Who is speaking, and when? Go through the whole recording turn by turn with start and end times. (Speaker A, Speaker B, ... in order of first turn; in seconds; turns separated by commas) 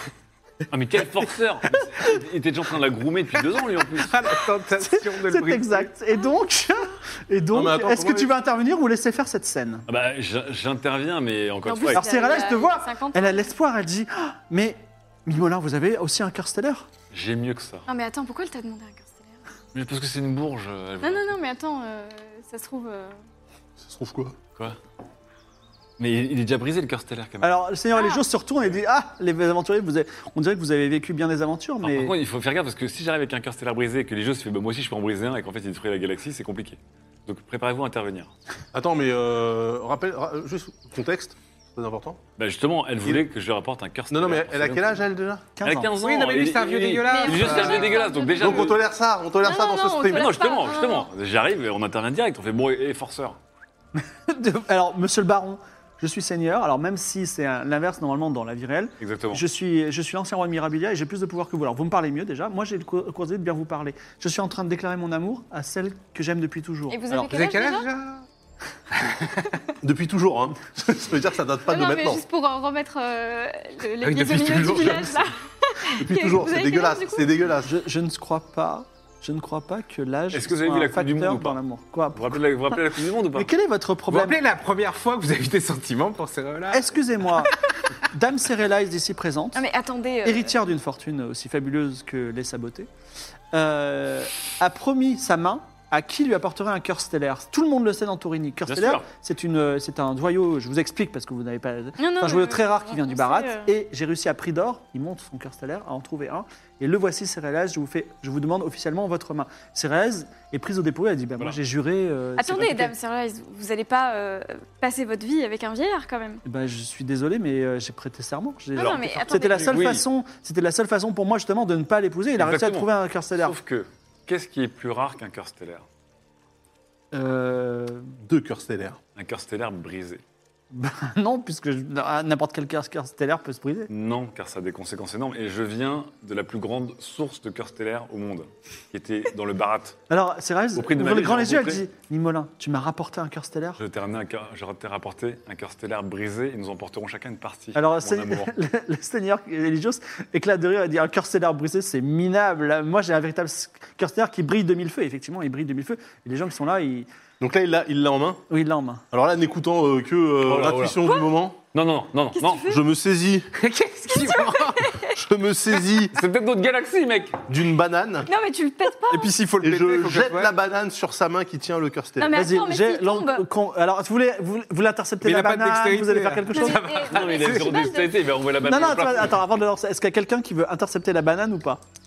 Speaker A: 0.7-4.1, Speaker B: 4.0-5.9, Speaker C: 4.9-9.8, Speaker D: 7.5-8.3, Speaker A: 9.9-12.0, Speaker E: 11.7-13.5, Speaker C: 11.9-16.9, Speaker A: 17.1-17.9, Speaker E: 17.9-19.4, Speaker A: 19.7-21.4, Speaker E: 21.0-23.1, Speaker D: 23.8-24.4, Speaker A: 26.0-27.6, Speaker C: 27.4-32.1, Speaker E: 27.9-28.2, Speaker A: 31.8-38.3, Speaker D: 38.7-42.2, Speaker A: 42.4-45.0, Speaker D: 44.1-45.5, Speaker C: 45.6-46.0, Speaker A: 45.6-48.8, Speaker B: 46.0-48.0, Speaker E: 47.0-48.8, Speaker D: 48.4-50.3, Speaker E: 49.4-51.1, Speaker A: 50.1-53.4, Speaker C: 54.3-67.3, Speaker A: 59.0-59.4, Speaker E: 66.9-67.9, Speaker B: 67.2-68.3, Speaker D: 69.8-72.2, Speaker E: 71.7-77.3, Speaker B: 74.0-75.3, Speaker D: 76.0-77.7, Speaker C: 77.7-82.8, Speaker A: 80.3-81.6, Speaker A: 82.1-83.5, Speaker C: 83.3-84.4, Speaker B: 84.1-87.0, Speaker C: 86.7-89.6, Speaker E: 89.5-90.5, Speaker C: 90.2-92.9, Speaker C: 93.5-112.9, Speaker A: 98.7-99.1, Speaker E: 102.0-103.7, Speaker E: 112.4-116.4, Speaker C: 116.5-123.6, Speaker E: 118.7-119.9, Speaker A: 119.6-120.0, Speaker A: 122.4-125.8, Speaker C: 127.1-128.2, Speaker D: 128.2-129.0, Speaker A: 129.2-130.2, Speaker C: 130.7-133.9, Speaker A: 133.9-140.0, Speaker C: 140.1-143.8, Speaker A: 140.8-141.8, Speaker A: 143.8-148.5, Speaker C: 147.8-157.1, Speaker D: 157.4-158.4, Speaker C: 158.5-159.0, Speaker D: 159.1-161.6, Speaker A: 160.4-161.0, Speaker A: 161.7-162.7, Speaker E: 162.3-162.8, Speaker D: 162.7-163.5, Speaker B: 163.6-164.9, Speaker E: 164.1-165.2, Speaker D: 165.1-166.2, Speaker A: 166.1-167.4, Speaker D: 167.5-168.3, Speaker E: 168.3-169.3, Speaker B: 169.1-170.5, Speaker D: 169.6-172.4, Speaker E: 172.2-173.5, Speaker C: 172.3-176.8, Speaker B: 175.2-177.8, Speaker E: 176.5-178.2, Speaker A: 177.1-179.4, Speaker C: 178.6-181.8